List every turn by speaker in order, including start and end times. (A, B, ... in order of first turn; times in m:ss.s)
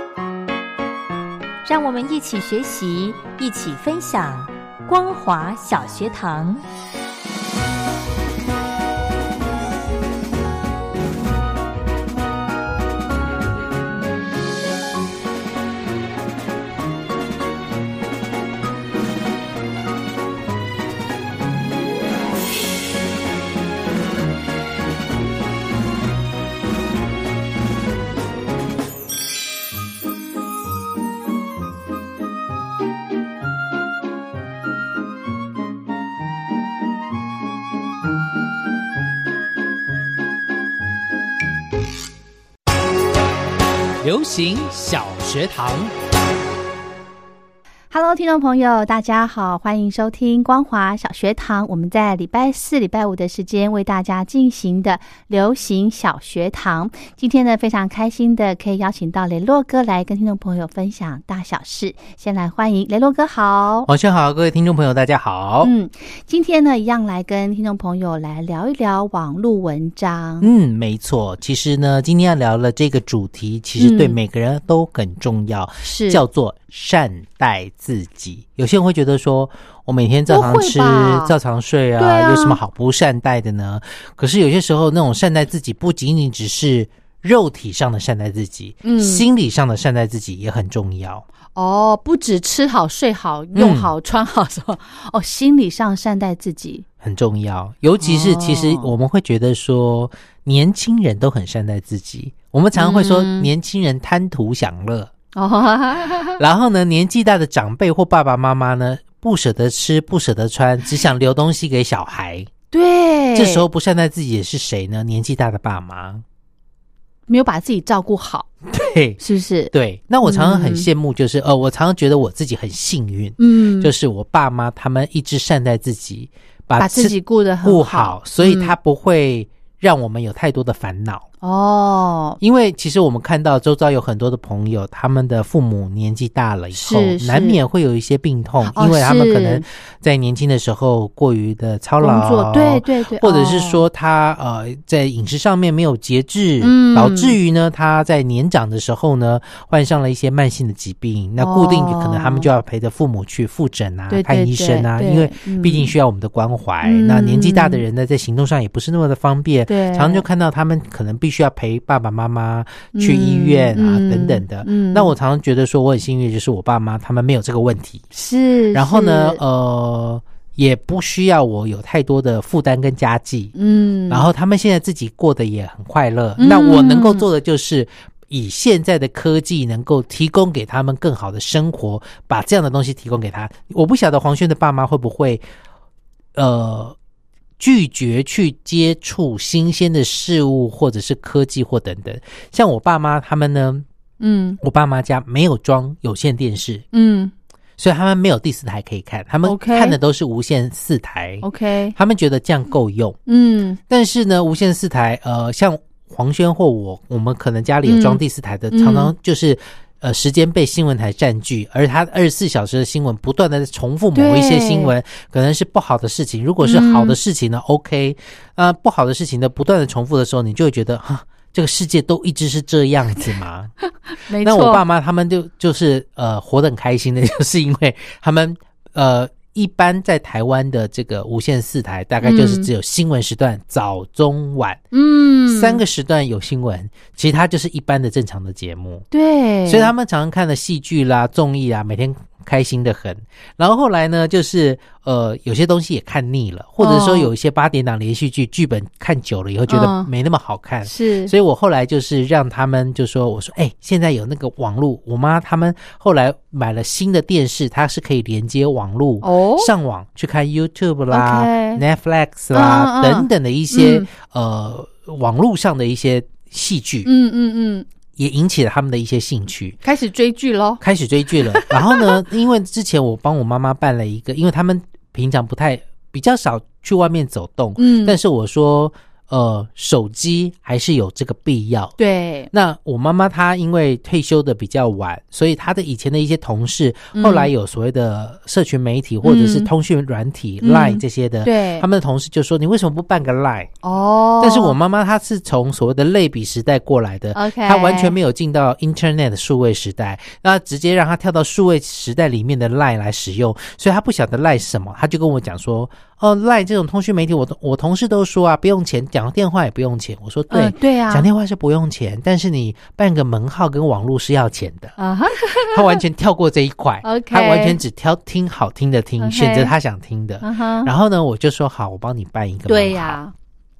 0:01.6-0:06.6 A
0:44.0-0:45.9 B
0:47.9-1:03.9 C
1:03.9-1:05.7 B
1:05.6-1:10.5 C
1:10.4-1:31.2 B
1:13.8-1:14.2 C
1:15.8-1:16.2 C
1:20.3-1:21.4 C
1:22.0-1:22.6 C
1:28.8-1:29.3 C
1:31.6-1:36.8 C
1:33.6-1:33.9 B
1:37.0-1:45.1 B
1:38.0-1:38.9 C
1:42.8-1:43.5 C
1:45.4-1:46.4 C
1:46.4-1:52.5 B
1:52.7-1:53.7 C
1:53.3-1:56.2 B
1:57.3-1:58.5 C
1:58.7-2:11.3 B
1:59.2-2:00.9 C
2:03.4-2:03.9 C
2:06.8-2:08.7 C
2:11.4-2:12.4 C
2:12.4-2:48.1 B
2:16.7-2:17.6 C
2:18.6-2:19.6 C
2:22.0-2:23.8 C
2:26.6-2:27.4 C
2:31.4-2:32.5 C
2:34.1-2:35.9 C
2:36.8-2:37.8 C
2:39.7-2:40.2 C
2:42.9-2:45.1 C
2:48.1-2:49.4 C
2:48.7-2:53.5 B
2:53.6-2:54.3 C
2:54.1-3:05.4 B
2:56.4-2:57.3 C
3:06.4-3:07.0 B
3:07.6-3:13.8 B
3:14.2-3:14.6 C
3:14.6-3:16.9 B
3:16.9-3:17.3 C
3:17.8-3:23.2 B
3:19.4-3:20.0 C
3:21.4-3:22.0 C
3:23.3-3:23.8 C
3:23.9-3:43.7 B
3:27.8-3:29.1 C
3:34.2-3:34.9 C
3:36.6-3:37.2 C
3:44.1-3:44.8 C
3:44.4-3:54.8 B
3:52.2-3:52.7 C
3:54.9-3:55.8 C
3:55.5-3:59.1 B
3:59.1-3:59.9 C
3:59.7-4:27.1 B
4:06.8-4:07.3 C
4:09.7-4:10.1 C
4:10.8-4:11.3 C
4:19.2-4:19.7 C
4:21.1-4:21.8 C
4:22.5-4:24.1 C
4:27.0-4:27.9 C
4:28.2-4:29.8 B
4:29.8-4:30.8 C
4:30.8-4:42.0 B
4:31.5-4:32.2 C
4:37.8-4:38.2 C
4:42.0-4:42.5 C
4:42.5-4:53.8 B
4:47.1-4:47.5 C
4:49.2-4:49.7 C
4:50.6-4:51.9 C
4:53.8-4:54.8 C
4:54.4-5:15.0 B
4:57.3-4:58.2 C
5:10.5-5:11.3 C
5:15.0-5:16.0 C
5:15.5-5:23.2 B
5:17.0-5:17.8 C
5:19.2-5:19.7 C
5:20.4-5:20.9 C
5:22.7-5:23.3 C